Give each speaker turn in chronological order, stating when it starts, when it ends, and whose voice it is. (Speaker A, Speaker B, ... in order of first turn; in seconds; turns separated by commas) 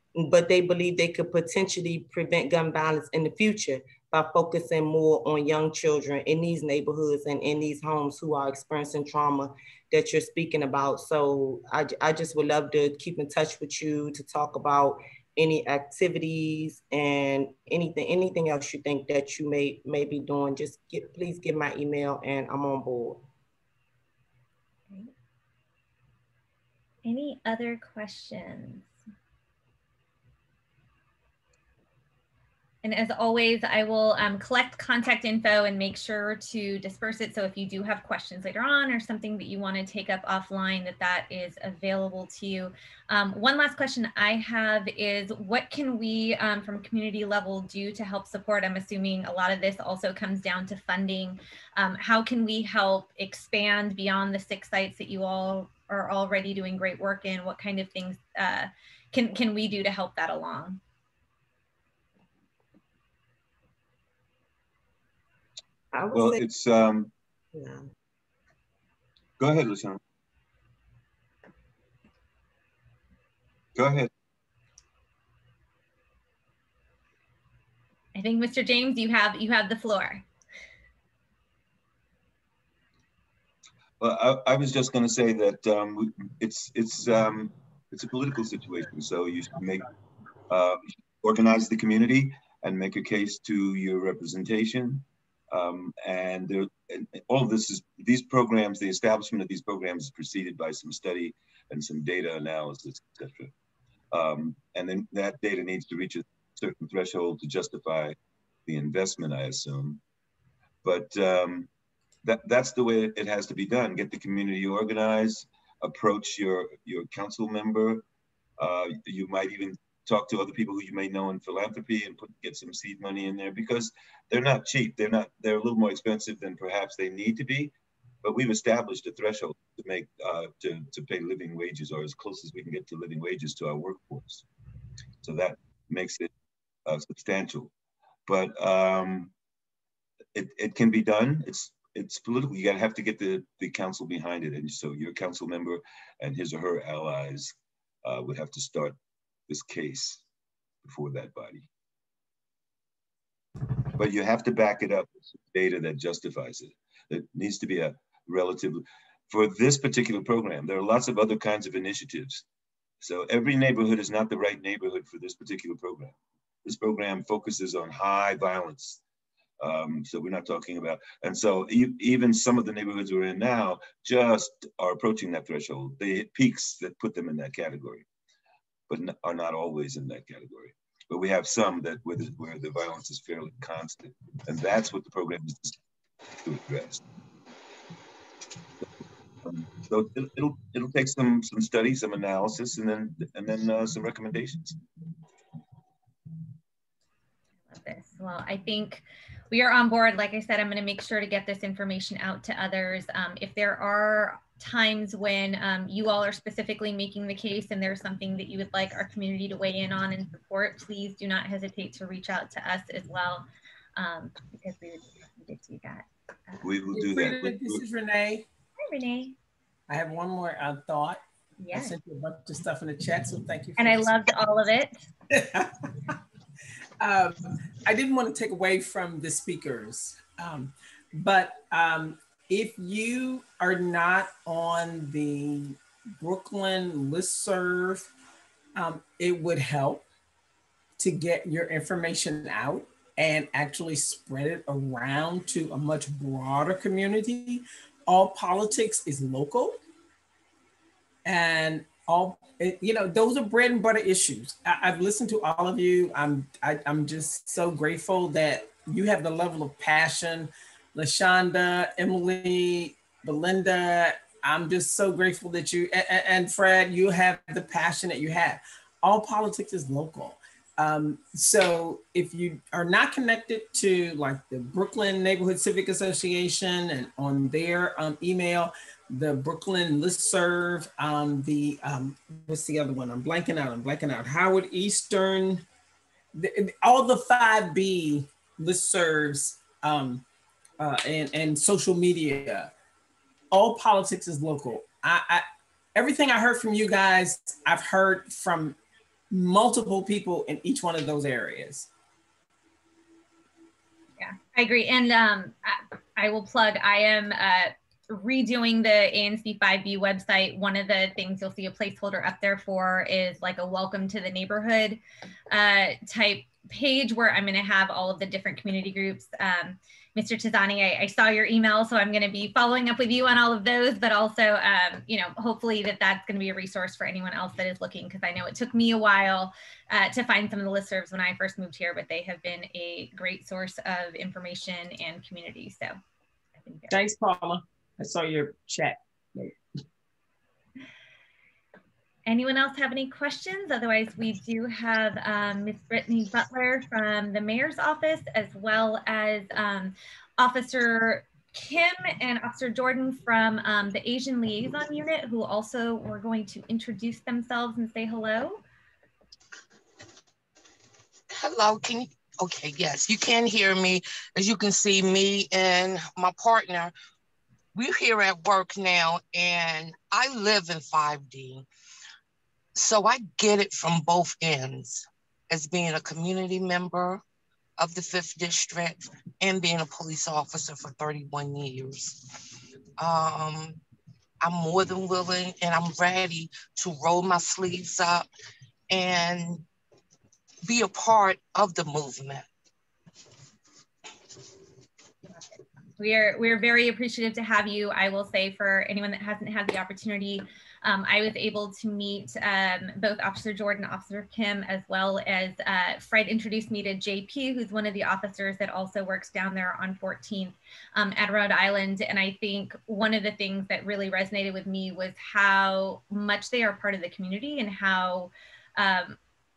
Speaker A: 0.1-23.2, Speaker B: 27.0-28.9, Speaker B: 32.8-60.8, Speaker A: 65.9-66.4, Speaker C: 66.1-67.1, Speaker A: 67.5-67.8, Speaker C: 69.4-70.0, Speaker C: 73.7-74.1, Speaker B: 78.2-80.2, Speaker C: 84.0-89.9, Speaker C: 90.5-103.5, Speaker C: 104.1-110.0, Speaker C: 110.8-111.7, Speaker C: 112.2-118.0, Speaker C: 118.6-134.4, Speaker C: 135.2-136.3, Speaker C: 136.8-137.7, Speaker C: 138.2-139.3, Speaker C: 140.3-149.0, Speaker C: 149.5-150.2, Speaker C: 150.8-151.7, Speaker C: 153.9-162.4, Speaker C: 163.0-169.0, Speaker C: 169.6-178.1, Speaker C: 178.9-185.8, Speaker C: 186.3-187.0, Speaker C: 189.4-194.8, Speaker B: 197.7-213.4, Speaker B: 213.9-216.6, Speaker C: 216.6-217.8, Speaker D: 216.9-218.4, Speaker B: 218.8-219.3, Speaker D: 219.9-221.2, Speaker B: 221.6-221.9, Speaker D: 221.7-224.2, Speaker B: 223.8-224.9, Speaker D: 225.3-226.1, Speaker D: 227.0-238.1, Speaker D: 238.8-240.0, Speaker D: 241.0-249.8, Speaker D: 251.2-285.6, Speaker D: 286.3-290.2, Speaker D: 290.8-292.7, Speaker D: 293.5-298.8, Speaker D: 299.3-301.9, Speaker B: 304.2-315.0, Speaker B: 315.5-335.9, Speaker B: 336.6-337.0, Speaker D: 336.9-339.5, Speaker B: 342.3-358.6, Speaker E: 361.3-366.9, Speaker E: 367.7-371.6, Speaker E: 372.8-377.2, Speaker E: 377.8-382.2, Speaker E: 383.0-383.8, Speaker E: 384.4-388.3, Speaker E: 388.9-389.6, Speaker E: 390.6-392.5, Speaker B: 396.0-419.2